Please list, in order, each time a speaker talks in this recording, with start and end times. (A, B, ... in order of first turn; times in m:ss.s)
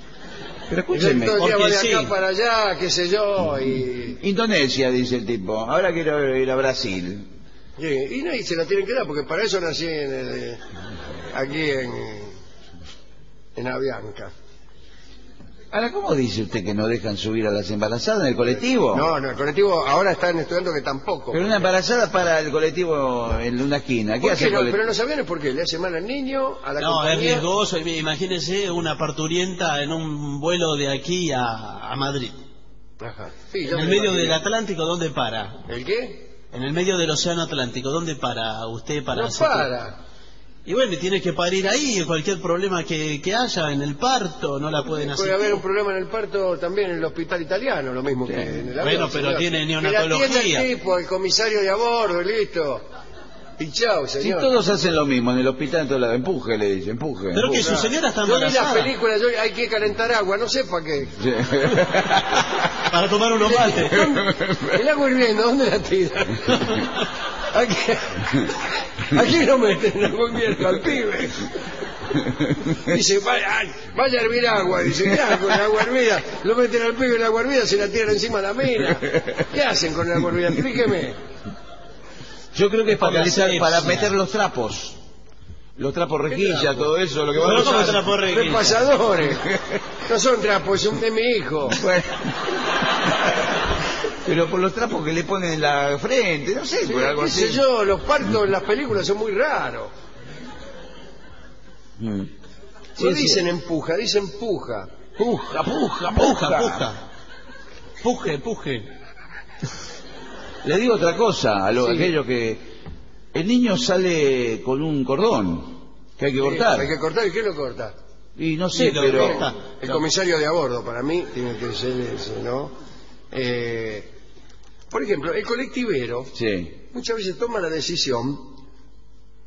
0:00.7-0:01.4 A
0:00.9-0:04.2 B
0:01.4-0:02.1 C
0:04.2-0:07.3 A
0:07.8-0:10.6 B
0:11.3-0:12.4 B
0:13.6-0:14.3 B
0:15.7-0:19.1 A
0:18.9-0:21.6 B
0:21.3-0:24.8 A
0:24.2-0:27.5 B
0:26.8-0:32.4 C
0:33.0-0:34.4 B
0:33.7-0:35.6 C
0:35.7-0:36.3 B
0:36.5-0:39.7 C
0:39.1-0:40.0 B
0:40.7-0:45.6 C
0:45.0-0:52.9 B
0:48.3-0:48.7 A
0:48.8-0:50.7 C
0:53.6-0:54.5 B
0:54.2-0:57.8 A
0:57.3-0:58.9 C
0:57.6-1:01.2 B
1:01.2-1:02.9 A
1:02.9-1:04.0 C
1:03.4-1:06.9 B
1:04.3-1:04.8 A
1:07.5-1:11.6 B
1:12.6-1:21.2 B
1:22.5-1:25.0 A
1:23.0-1:24.1 C
1:25.8-1:28.0 A
1:26.3-1:26.9 B
1:27.4-1:28.9 C
1:27.4-1:29.5 B
1:29.5-1:29.8 A
1:30.0-1:31.8 B
1:31.7-1:32.4 A
1:34.2-1:37.6 A
1:36.8-1:39.9 B
1:42.0-1:42.3 A
1:43.0-1:44.9 B
1:43.0-1:43.4 A
1:45.2-1:46.9 A
1:46.2-1:47.0 C
1:48.0-1:48.9 C
1:50.6-1:52.6 A
1:51.8-1:52.1 B
1:53.3-1:56.9 A
1:56.4-1:58.0 B
1:58.4-1:59.4 A
1:58.7-2:00.0 C
1:59.0-2:02.8 B
2:03.3-2:04.1 B
2:04.9-2:06.3 B
2:06.4-2:06.8 A
2:06.9-2:08.6 B